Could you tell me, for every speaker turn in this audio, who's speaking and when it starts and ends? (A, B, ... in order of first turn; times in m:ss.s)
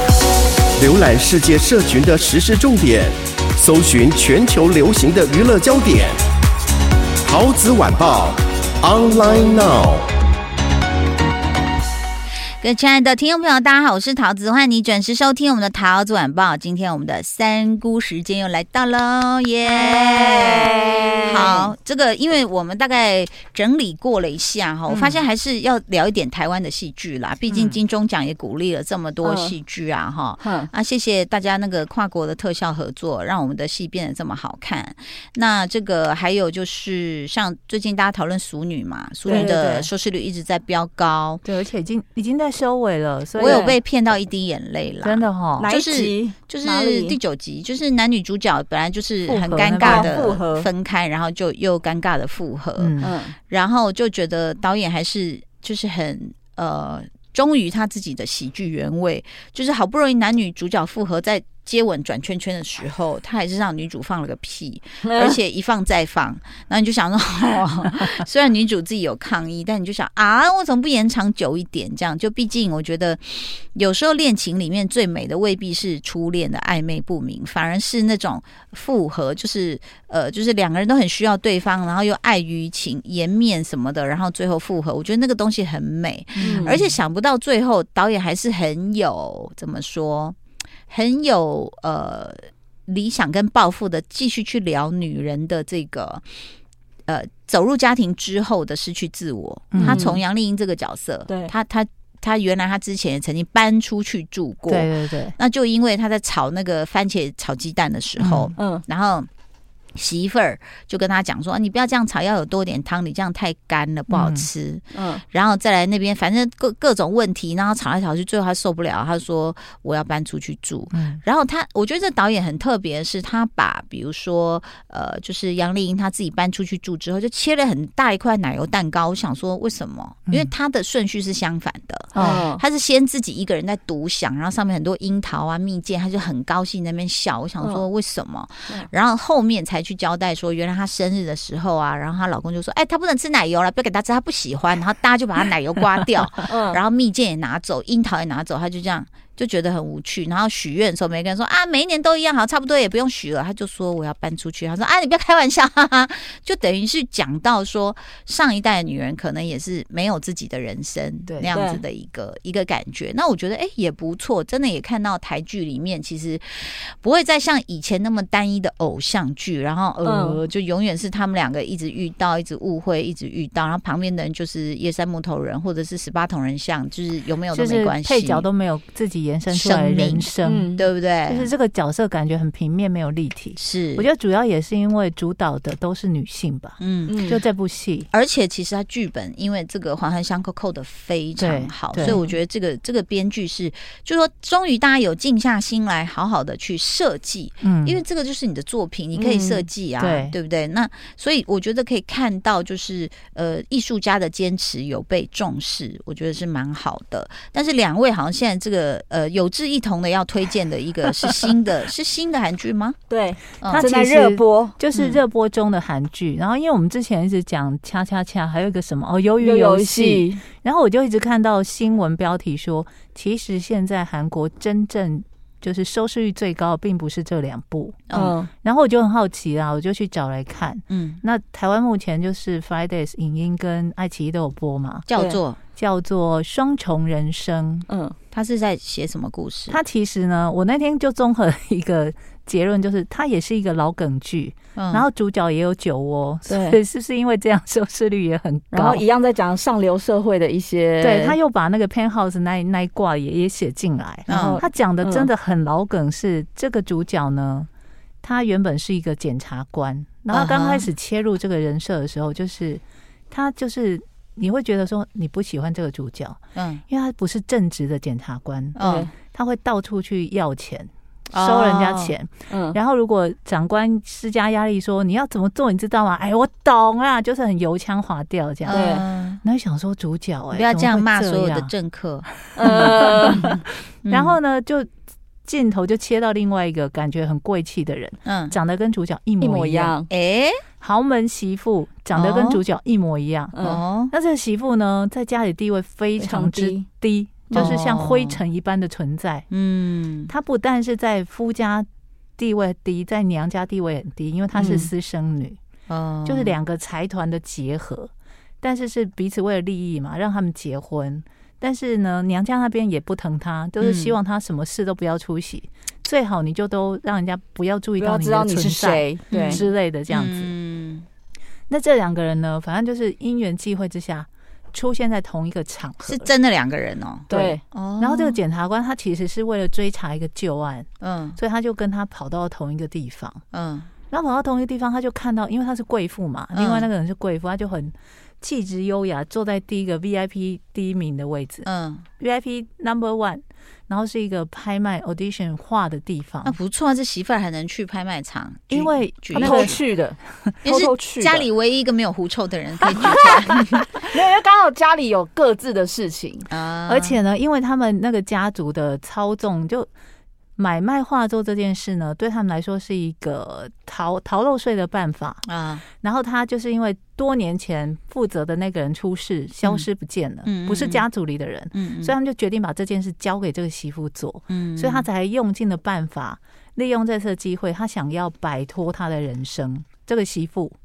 0:00.8-0:06.2 A
0:07.2-0:10.1 A
0:12.6-0:41.4 B
0:19.7-0:21.3 C
0:24.9-0:25.2 D
0:27.5-0:27.8 D
0:29.2-0:29.5 C
0:30.4-0:30.7 C
0:39.2-0:39.9 C
0:39.3-0:39.6 D
0:41.4-0:43.7 D
0:43.4-1:30.4 B
0:43.4-0:43.7 C
0:45.0-0:45.7 D
0:45.6-0:47.2 C
0:49.3-0:50.2 D
0:49.8-0:50.7 C
0:52.8-0:53.2 D
0:53.0-0:53.3 C
1:26.4-1:27.0 D
1:26.4-1:26.7 C
1:30.9-1:36.2 B
1:37.1-1:49.3 B
1:39.7-1:40.2 D
1:39.8-1:40.0 C
1:44.7-1:45.3 D
1:48.2-1:48.5 D
1:48.6-1:48.8 C
1:49.9-2:58.5 B
1:54.1-1:54.5 D
1:54.9-1:55.2 C
2:00.9-2:01.2 D
2:12.1-2:12.4 D
2:12.2-2:12.6 C
2:26.5-2:26.8 C
2:41.3-2:41.6 D
2:50.0-2:50.4 C
2:57.5-3:00.8 D
2:59.5-3:01.5 B
3:00.4-3:00.8 C
3:01.3-3:08.1 D
3:03.6-3:04.1 B
3:06.8-3:07.3 B
3:07.1-3:07.4 C
3:08.1-3:33.0 B
3:11.4-3:12.2 D
3:17.6-3:18.0 D
3:19.2-3:19.6 C
3:20.0-3:20.3 D
3:33.1-3:34.8 C
3:33.6-3:33.9 B
3:33.6-3:55.0 D
3:34.9-3:35.2 B
3:39.4-3:40.4 C
3:48.1-3:48.4 B
3:48.1-3:48.5 C
3:50.9-3:51.2 B
3:55.1-3:55.6 B
3:55.8-3:57.8 D
3:57.9-3:58.2 C
3:58.3-3:59.8 B
3:59.7-4:09.0 D
4:04.7-4:05.0 B
4:06.5-4:06.8 C
4:08.7-4:11.4 C
4:11.0-4:17.7 D
4:14.3-4:14.6 B
4:14.3-4:15.3 C
4:18.2-4:41.7 D
4:20.3-4:20.9 B
4:26.5-4:26.8 B
4:28.7-4:29.1 B
4:28.8-4:29.1 C
4:31.3-4:32.1 B
4:32.5-4:32.8 C
4:38.6-4:39.4 B
4:38.7-4:39.0 C
4:40.5-4:42.3 B
4:42.4-4:43.5 D
4:42.6-4:43.6 C
4:44.0-4:44.4 B
4:44.1-4:44.9 D
4:45.4-4:49.9 D
4:48.2-4:48.6 B
4:49.4-4:50.1 C
4:50.1-4:50.6 B
4:50.8-4:59.4 D
4:52.1-4:52.6 B
4:53.5-4:53.8 C
4:53.6-4:54.1 B
4:56.2-4:56.8 C
4:57.5-4:57.8 C
4:57.5-4:58.4 B
4:59.5-5:00.3 B
5:00.3-5:05.6 D
5:04.5-5:04.8 C
5:05.9-5:06.6 B
5:06.2-5:08.1 D
5:08.6-5:20.5 D
5:13.8-5:14.2 B
5:18.0-5:19.6 C
5:19.3-5:21.0 B
5:21.7-5:26.3 D
5:26.0-5:28.4 B
5:27.3-5:33.4 D
5:27.3-5:27.6 C
5:31.0-5:31.4 B
5:33.5-5:33.9 B
5:34.1-5:41.7 D
5:36.5-5:36.9 B
5:41.6-5:42.1 B
5:42.2-5:46.6 D
5:46.4-5:49.6 B
5:48.7-5:49.8 D
5:49.4-5:51.4 C
5:50.6-5:53.9 B
5:54.1-5:56.5 C
5:56.5-5:57.2 B
5:56.8-5:59.9 D
6:00.6-6:05.4 D
6:05.4-6:05.8 B
6:06.0-6:20.7 D
6:10.4-6:11.0 B
6:11.7-6:12.2 B
6:14.5-6:15.1 B